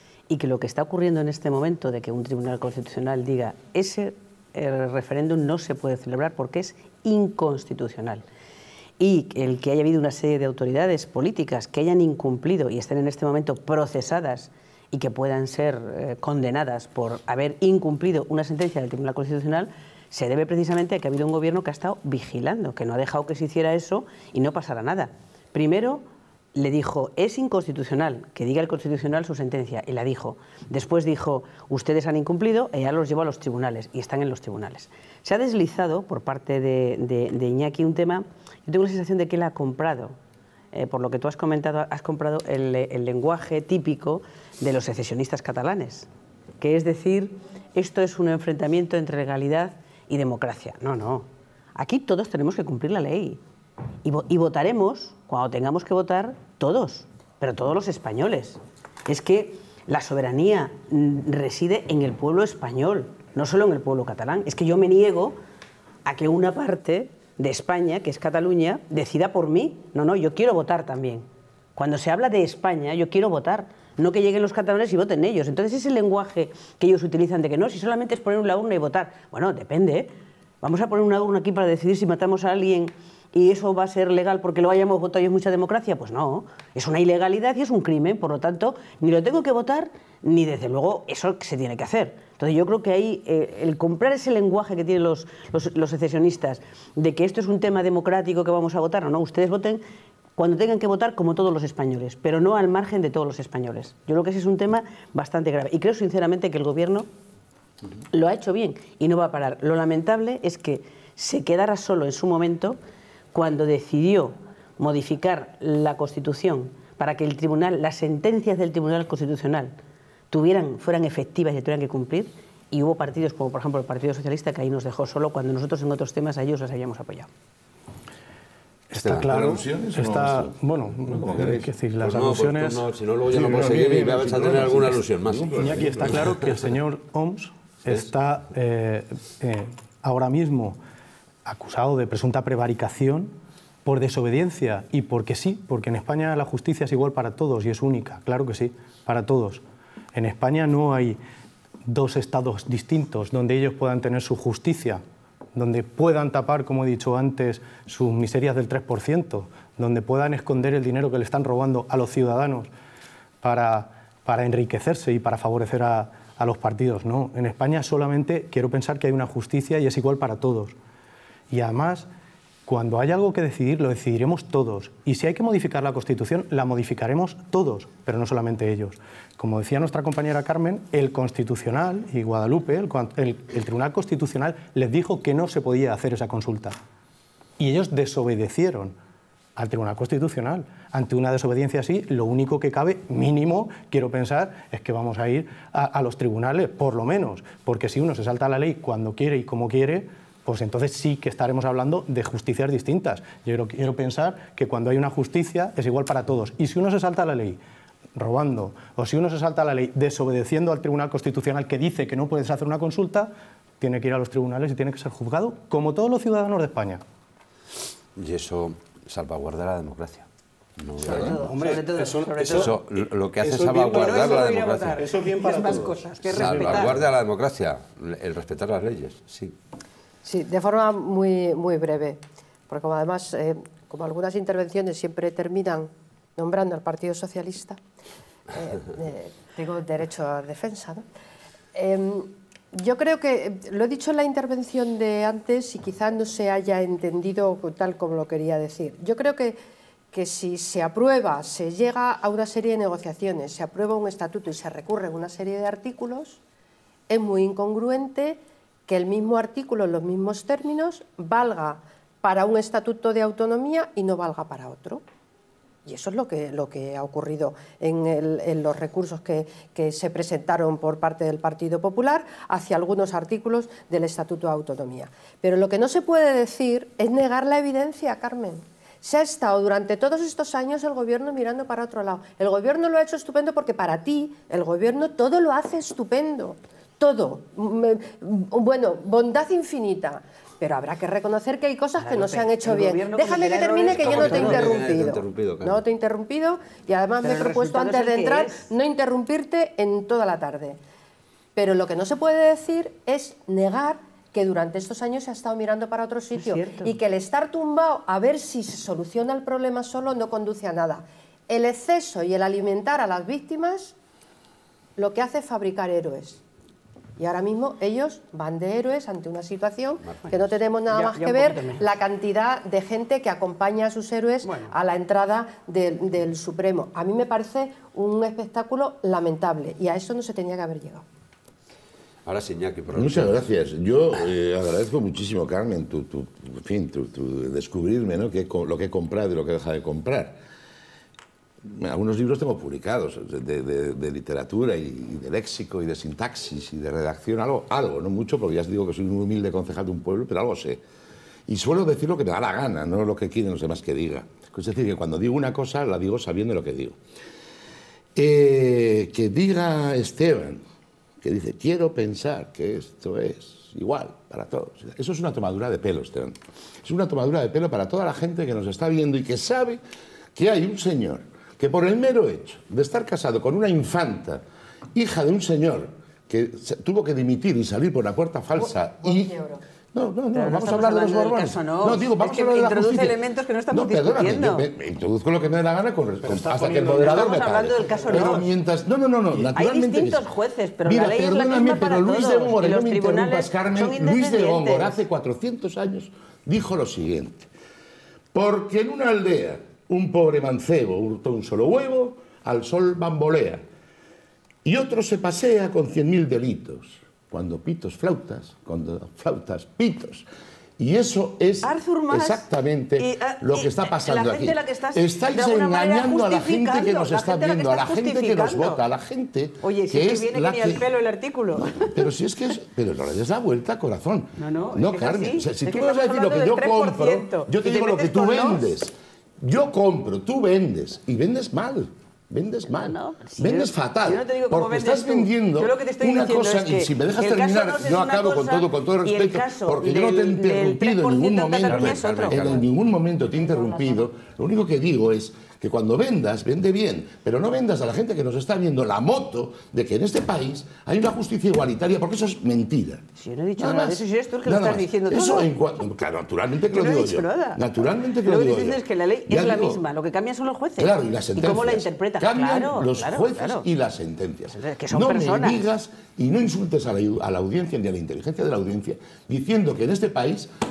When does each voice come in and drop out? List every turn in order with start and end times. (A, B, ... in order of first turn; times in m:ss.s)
0:00.3-0:08.2 A
0:09.0-0:26.0 A
0:26.6-0:40.2 A
0:40.7-0:46.1 A
0:46.6-0:53.4 A
0:54.0-1:05.4 A
1:06.0-1:20.1 A
1:20.6-1:39.8 A
1:40.4-1:47.1 A
1:48.1-1:52.8 A
1:53.3-1:59.8 A
2:00.3-2:07.3 A
2:08.9-2:12.9 B
2:09.0-2:11.7 C
2:12.0-2:16.5 D
2:13.3-2:16.4 C
2:15.6-2:20.8 B
2:21.4-2:23.3 B
2:23.8-2:29.6 B
2:30.1-2:31.2 B
2:31.9-2:35.0 B
2:35.6-2:42.7 B
2:43.4-2:50.8 B
2:51.5-2:52.1 B
2:52.7-3:06.8 B
3:07.6-3:09.0 B
3:09.6-3:27.6 B
3:28.2-3:37.0 B
3:38.2-3:41.8 D
3:41.0-3:42.7 A
3:41.1-3:41.4 C
3:41.3-3:47.1 B
3:42.5-3:45.1 D
3:43.6-3:46.9 A
3:46.3-3:49.6 D
3:50.2-3:57.8 E
3:58.5-4:01.0 E
4:01.7-4:09.6 E
4:10.1-4:16.4 E
4:17.1-4:25.0 E
4:25.9-5:00.8 E
4:52.0-4:54.8 A
4:53.9-4:55.8 D
4:57.2-4:58.7 A
5:01.6-5:14.0 E
5:06.4-5:07.0 A
5:15.0-5:16.4 E
5:17.2-5:31.0 E
5:20.0-5:20.5 D
5:20.9-5:21.9 A
5:24.4-5:24.8 A
5:32.2-5:33.4 D
5:32.9-5:40.4 C
5:41.6-5:50.8 C
5:51.5-5:57.0 C
5:58.2-6:00.6 C
6:01.2-6:09.8 C
6:10.4-6:14.4 C
6:14.9-6:19.4 C
6:18.6-6:19.6 E
6:19.9-6:30.3 C
6:20.3-6:24.7 A
6:26.2-6:28.4 B
6:26.9-6:28.5 A
6:29.5-6:35.0 A
6:30.8-6:37.5 C
6:38.3-6:43.6 C
6:44.6-6:50.3 C
6:50.8-7:00.9 C
6:51.6-6:58.8 A
6:59.6-7:02.1 A
7:01.6-7:33.0 C
7:04.4-7:08.6 A
7:12.7-7:22.6 A
7:21.7-7:22.7 D
7:23.4-7:23.9 E
7:33.2-7:35.5 A
7:33.6-7:39.8 C
7:36.7-7:37.7 A
7:38.2-7:43.7 A
7:40.8-7:50.5 C
7:44.5-7:45.6 A